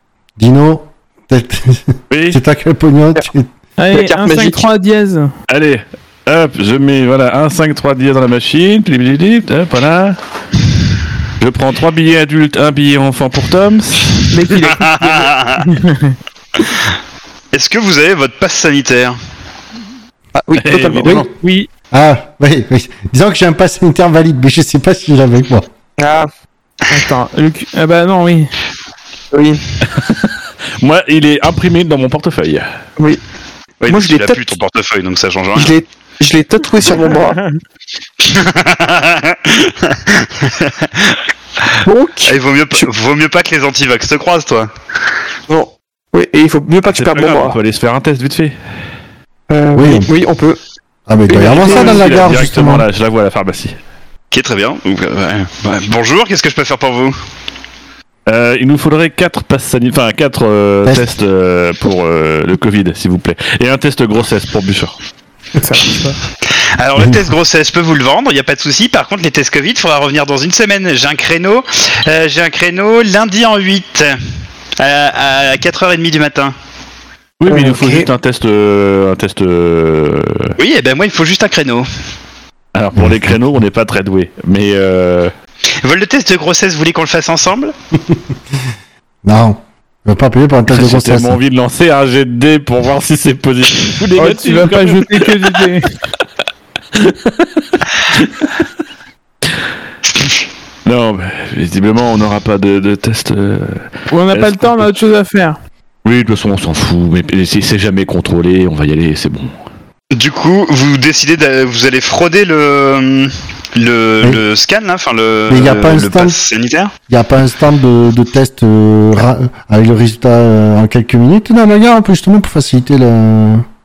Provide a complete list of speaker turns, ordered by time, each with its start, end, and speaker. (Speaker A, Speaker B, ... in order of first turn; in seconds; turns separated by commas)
Speaker A: 0.4-3.5, Speaker B: 2.1-2.4, Speaker C: 3.8-5.3, Speaker D: 3.9-4.7, Speaker B: 5.5-10.2, Speaker B: 11.4-14.2, Speaker C: 14.3-16.2, Speaker E: 14.6-15.7, Speaker E: 17.5-19.2, Speaker D: 20.4-21.3, Speaker B: 20.6-21.3, Speaker C: 21.4-21.7, Speaker A: 21.9-25.7, Speaker D: 26.0-26.3, Speaker C: 26.9-28.5, Speaker D: 29.3-29.6, Speaker B: 29.9-32.7, Speaker E: 33.8-35.8, Speaker D: 33.9-34.6, Speaker D: 35.5-37.4, Speaker E: 38.2-41.7, Speaker D: 41.8-42.9, Speaker E: 42.3-44.7, Speaker D: 45.5-47.6, Speaker B: 46.9-48.6, Speaker D: 49.5-50.6, Speaker A: 49.8-50.1, Speaker A: 51.1-52.9, Speaker D: 51.3-52.1, Speaker B: 51.4-53.8, Speaker E: 54.3-57.2, Speaker B: 58.3-64.9, Speaker C: 65.6-66.2, Speaker E: 66.8-74.2, Speaker E: 74.8-76.5, Speaker B: 77.4-80.5, Speaker D: 77.5-78.1, Speaker E: 80.6-81.9, Speaker B: 82.7-85.3, Speaker A: 83.0-83.4, Speaker E: 85.8-87.7, Speaker A: 89.2-91.4, Speaker B: 90.7-95.3, Speaker C: 94.2-95.9, Speaker B: 96.9-98.5, Speaker E: 100.1-100.5, Speaker B: 100.8-104.9, Speaker C: 104.1-105.6, Speaker B: 106.0-109.5, Speaker E: 110.1-116.9, Speaker A: 115.5-116.4, Speaker A: 117.1-123.6